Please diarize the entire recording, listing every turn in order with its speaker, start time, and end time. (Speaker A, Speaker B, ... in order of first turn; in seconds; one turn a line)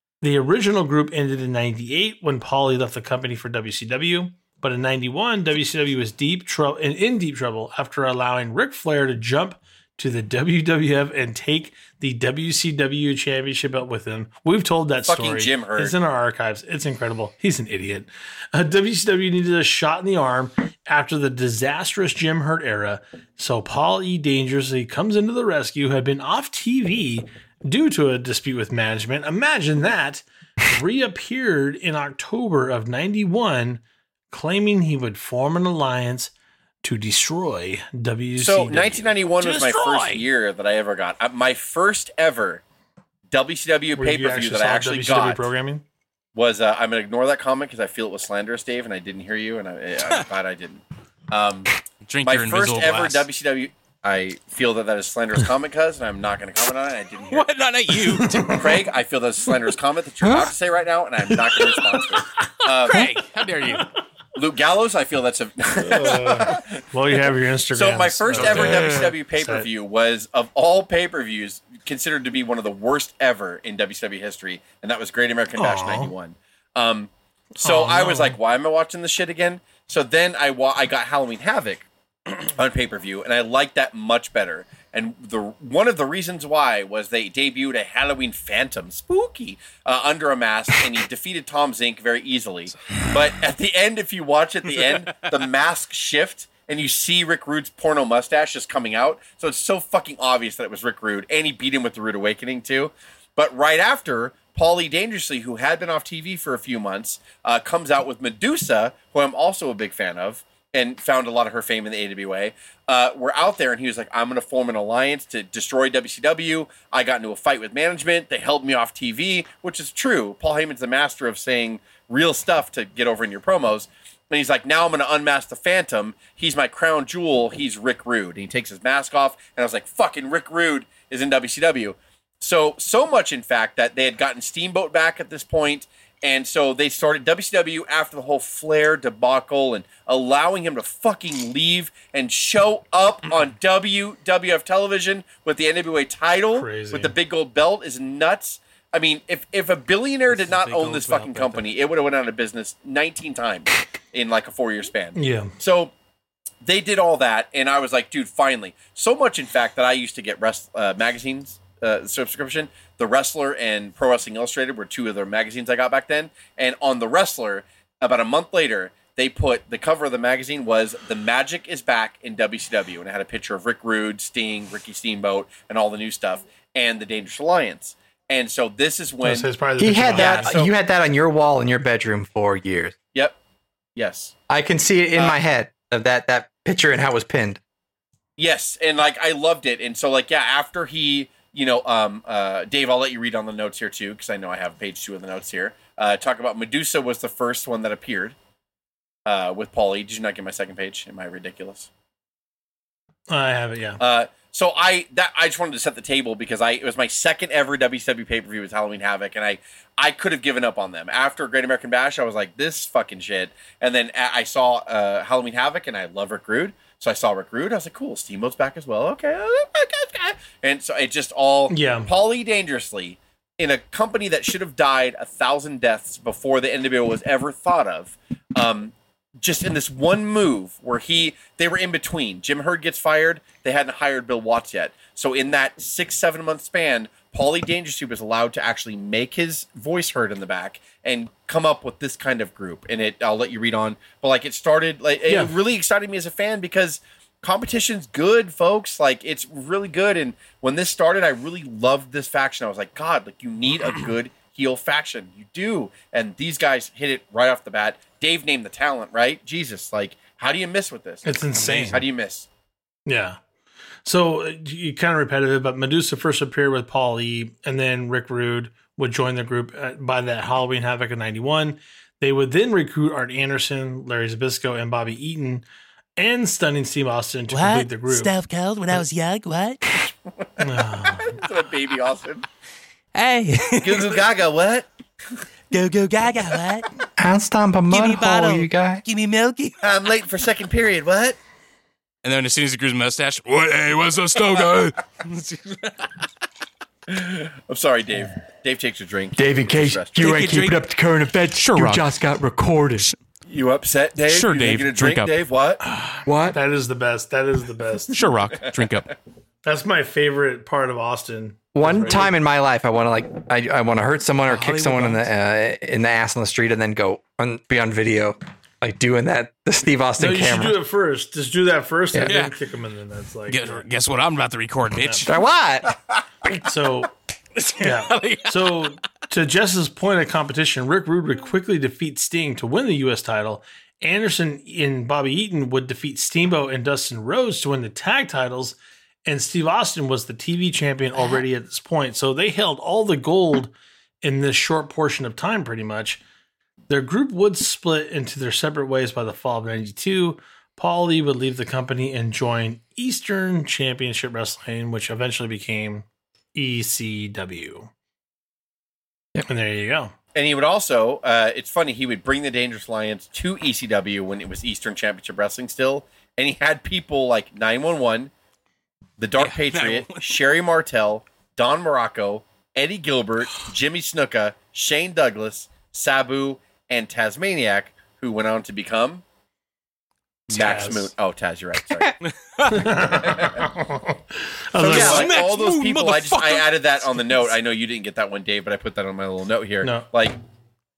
Speaker A: 0.2-39.9
Speaker B: 15.0-16.0
Speaker B: 38.4-42.6
Speaker C: 39.4-40.2
Speaker B: 43.3-45.5
Speaker A: 44.0-45.8
Speaker B: 46.4-51.7
Speaker C: 52.1-53.2
Speaker B: 52.2-57.5
Speaker C: 57.3-58.8
Speaker A: 58.2-58.6
Speaker B: 58.5-63.1
Speaker A: 61.6-62.0
Speaker C: 62.7-63.9
Speaker B: 64.3-66.8
Speaker A: 65.8-69.7
Speaker B: 67.7-155.9
Speaker C: 68.3-69.1
Speaker A: 75.6-76.1
Speaker A: 77.6-78.4
Speaker A: 146.5-147.2
Speaker C: 150.3-151.7
Speaker A: 155.2-155.5
Speaker B: 156.6-179.5
Speaker A: 179.2-180.6
Speaker D: 179.8-182.9
Speaker B: 180.1-180.7
Speaker B: 183.9-184.3
Speaker D: 184.5-187.6
Speaker B: 188.4-198.3
Speaker B: 199.3-201.9
Speaker A: 203.3-204.0
Speaker B: 204.0-262.5
Speaker A: 221.7-222.1
Speaker A: 245.3-245.5
Speaker A: 261.2-262.1
Speaker A: 263.1-263.4
Speaker A: 264.1-275.6
Speaker A: 276.2-278.3
Speaker E: 277.5-279.8
Speaker A: 280.6-281.4
Speaker B: 281.1-282.4
Speaker E: 283.1-283.7
Speaker C: 283.5-284.2
Speaker B: 283.8-284.9
Speaker E: 285.7-286.9
Speaker D: 287.2-289.0
Speaker E: 287.9-289.8
Speaker B: 289.8-291.4
Speaker C: 292.2-296.2
Speaker B: 297.1-300.6
Speaker D: 299.4-303.1
Speaker C: 300.2-302.2
Speaker B: 303.5-305.8
Speaker C: 304.3-305.3
Speaker A: 305.9-308.2
Speaker D: 306.3-306.6
Speaker C: 308.1-309.1
Speaker A: 309.6-312.3
Speaker D: 311.7-320.8
Speaker C: 314.5-315.2
Speaker A: 320.2-323.9
Speaker D: 322.1-322.4
Speaker C: 322.2-322.5
Speaker C: 323.5-325.4
Speaker A: 325.0-325.3
Speaker D: 325.3-325.9
Speaker A: 326.6-327.1
Speaker C: 327.6-328.9
Speaker A: 327.8-346.2
Speaker E: 341.2-341.4
Speaker A: 346.9-357.9
Speaker A: 359.5-360.1
Speaker B: 360.4-368.3
Speaker B: 369.2-379.2
Speaker C: 369.4-370.4
Speaker B: 380.5-382.2
Speaker A: 380.5-381.1
Speaker C: 382.2-382.8
Speaker A: 382.7-385.3
Speaker B: 383.2-383.7
Speaker B: 384.8-390.4
Speaker C: 384.9-387.4
Speaker A: 389.8-390.1